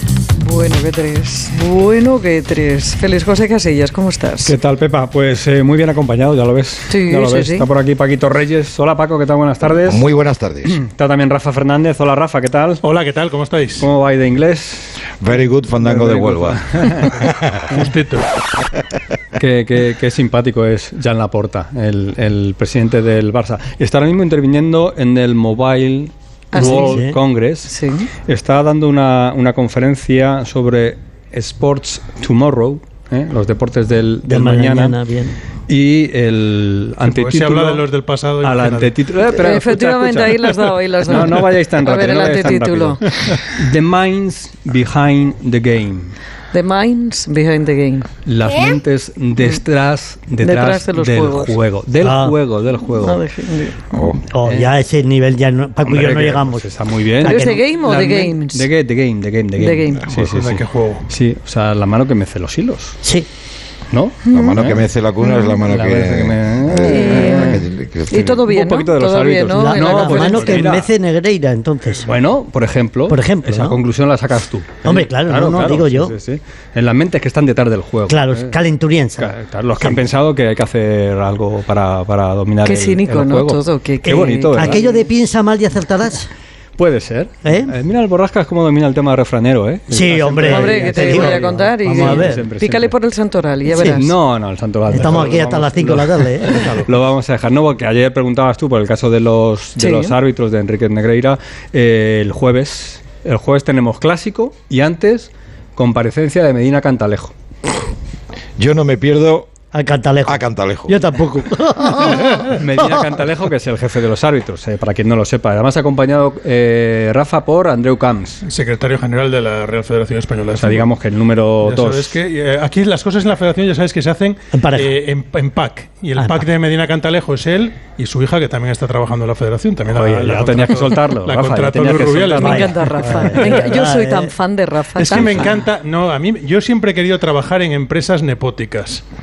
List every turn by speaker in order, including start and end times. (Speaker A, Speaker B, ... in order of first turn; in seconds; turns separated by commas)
Speaker A: 0.4-4.5, Speaker B: 4.4-10.0, Speaker A: 6.9-7.7, Speaker C: 9.8-10.7, Speaker B: 10.6-12.8, Speaker D: 12.8-13.9, Speaker B: 13.8-15.0, Speaker C: 15.2-17.6, Speaker B: 15.8-17.1, Speaker D: 17.7-18.3, Speaker B: 19.3-27.7, Speaker A: 26.5-27.0, Speaker E: 26.6-27.2, Speaker A: 27.6-28.1, Speaker B: 28.2-35.0, Speaker E: 34.2-35.3, Speaker B: 35.7-37.8, Speaker D: 37.0-38.9, Speaker B: 38.4-46.1, Speaker A: 39.3-43.0, Speaker A: 46.5-48.1, Speaker B: 48.2-53.2, Speaker A: 50.4-51.5, Speaker E: 52.0-52.4, Speaker A: 53.0-53.8, Speaker C: 53.9-54.2, Speaker E: 54.3-57.6, Speaker B: 54.4-54.7, Speaker B: 55.8-63.0, Speaker A: 57.2-58.7, Speaker A: 59.5-60.0, Speaker D: 60.1-61.1, Speaker B: 63.9-64.8, Speaker A: 64.2-64.6, Speaker C: 64.3-68.3, Speaker A: 65.2-65.6, Speaker B: 65.6-67.6, Speaker A: 66.8-70.6, Speaker B: 68.5-70.9, Speaker E: 69.5-72.1, Speaker B: 72.0-78.6, Speaker E: 73.1-73.8, Speaker E: 74.8-76.1, Speaker E: 78.1-80.0, Speaker B: 79.2-84.8, Speaker A: 82.6-84.9, Speaker E: 84.0-86.3, Speaker B: 86.8-93.0, Speaker E: 87.4-87.7, Speaker E: 89.9-92.5, Speaker A: 90.4-94.1, Speaker E: 93.7-94.0, Speaker B: 93.8-107.3, Speaker E: 94.9-96.9, Speaker A: 99.8-100.1, Speaker C: 108.6-109.5, Speaker E: 109.7-112.9, Speaker C: 110.2-111.0, Speaker B: 112.2-118.4, Speaker D: 118.4-120.9, Speaker B: 120.6-122.2, Speaker D: 121.6-133.8, Speaker E: 124.5-124.9, Speaker B: 129.9-132.7, Speaker A: 132.3-135.5, Speaker E: 132.4-134.3, Speaker D: 134.9-139.0